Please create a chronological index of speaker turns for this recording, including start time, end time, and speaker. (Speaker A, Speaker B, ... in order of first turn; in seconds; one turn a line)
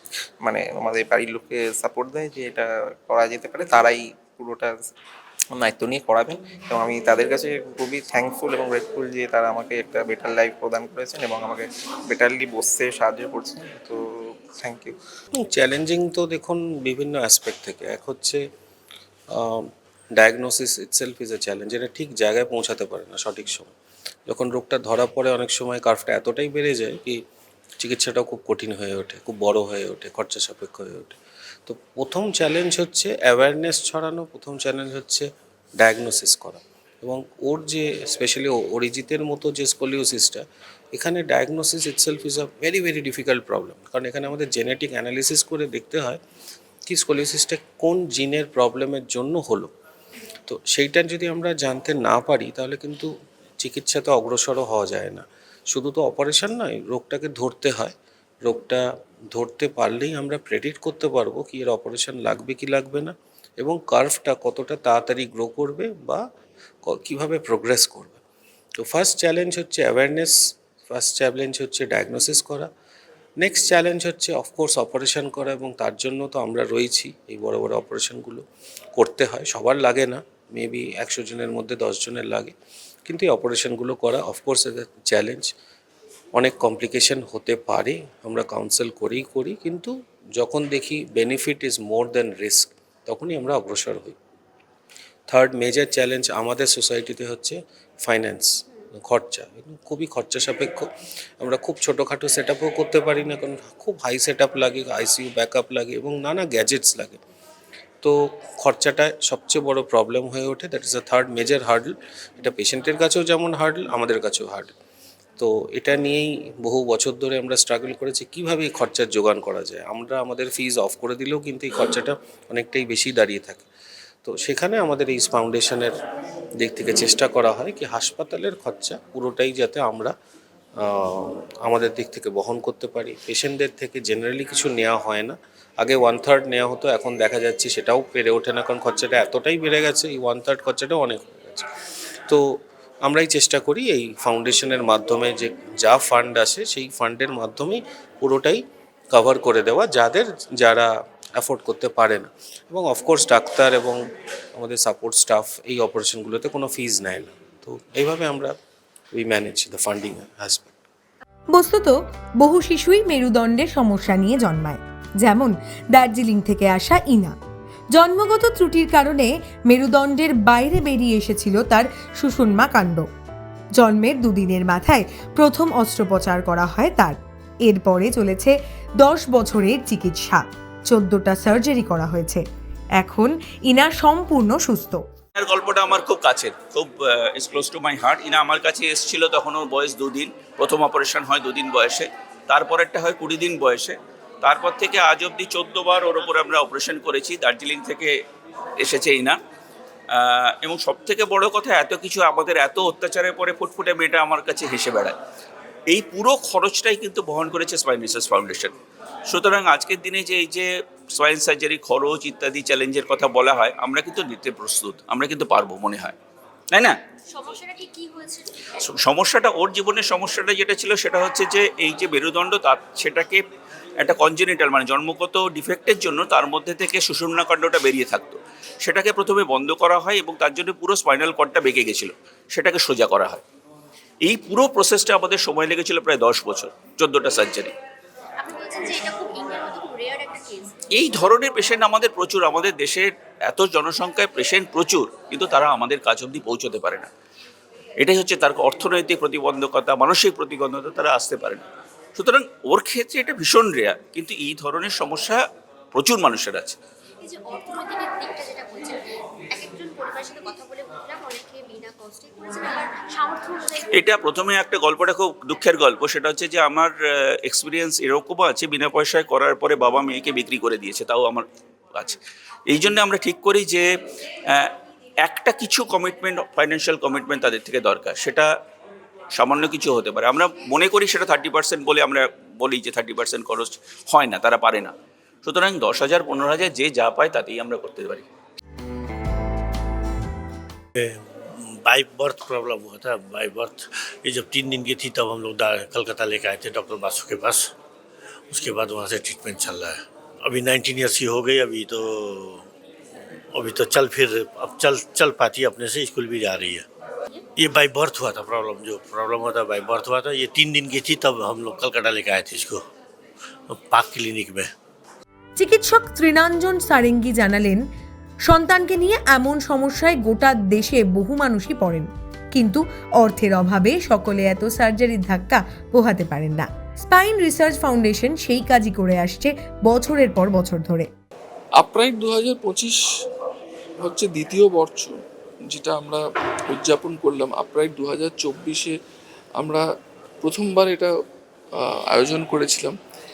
Speaker A: 0.4-4.8
Speaker A: 5.5-15.0
Speaker B: 15.3-18.4
Speaker B: 19.3-23.7
Speaker B: 24.3-27.2
Speaker B: 27.8-35.3
Speaker B: 35.8-40.4
Speaker B: 40.9-46.2
Speaker B: 46.9-49.7
Speaker B: 50.5-53.1
Speaker B: 53.6-57.9
Speaker B: 58.5-66.2
Speaker B: 66.9-68.2
Speaker B: 68.8-72.7
Speaker B: 73.4-78.4
Speaker B: 79.0-82.5
Speaker B: 83.1-85.5
Speaker B: 86.4-94.2
Speaker B: 95.3-100.9
Speaker B: 101.4-107.2
Speaker B: 108.0-114.8
Speaker B: 115.4-123.7
Speaker B: 124.2-126.0
Speaker B: 126.6-130.1
Speaker B: 130.8-141.7
Speaker B: 143.1-154.0
Speaker B: 154.6-158.5
Speaker B: 159.1-160.8
Speaker C: 161.5-167.4
Speaker C: 167.9-173.1
Speaker C: 173.8-182.4
Speaker C: 183.0-185.0
Speaker D: 185.4-198.2
Speaker D: 198.8-199.4
Speaker D: 200.1-205.2
Speaker D: 205.9-208.7
Speaker D: 209.3-216.2
Speaker D: 216.7-217.0
Speaker E: 217.3-218.6
Speaker D: 218.8-223.4
Speaker D: 224.0-233.4
Speaker D: 234.2-237.7
Speaker E: 238.4-240.7
Speaker D: 240.9-247.1
Speaker D: 248.0-251.6
Speaker D: 252.2-255.4
Speaker D: 255.9-256.8
Speaker E: 257.2-259.0
Speaker E: 259.5-264.1
Speaker D: 263.9-273.9
Speaker D: 275.2-278.5
Speaker D: 279.3-284.9
Speaker D: 285.4-288.3
Speaker F: 290.9-297.7
Speaker F: 298.5-302.7
Speaker F: 303.5-306.9
Speaker F: 307.6-312.8
Speaker F: 313.7-314.7
Speaker C: 315.6-317.8
Speaker C: 318.5-331.1
Speaker G: 331.8-333.0
Speaker G: 334.0-335.1
Speaker G: 335.7-339.0
Speaker G: 339.6-339.9
Speaker G: 340.4-341.1
Speaker G: 341.8-343.0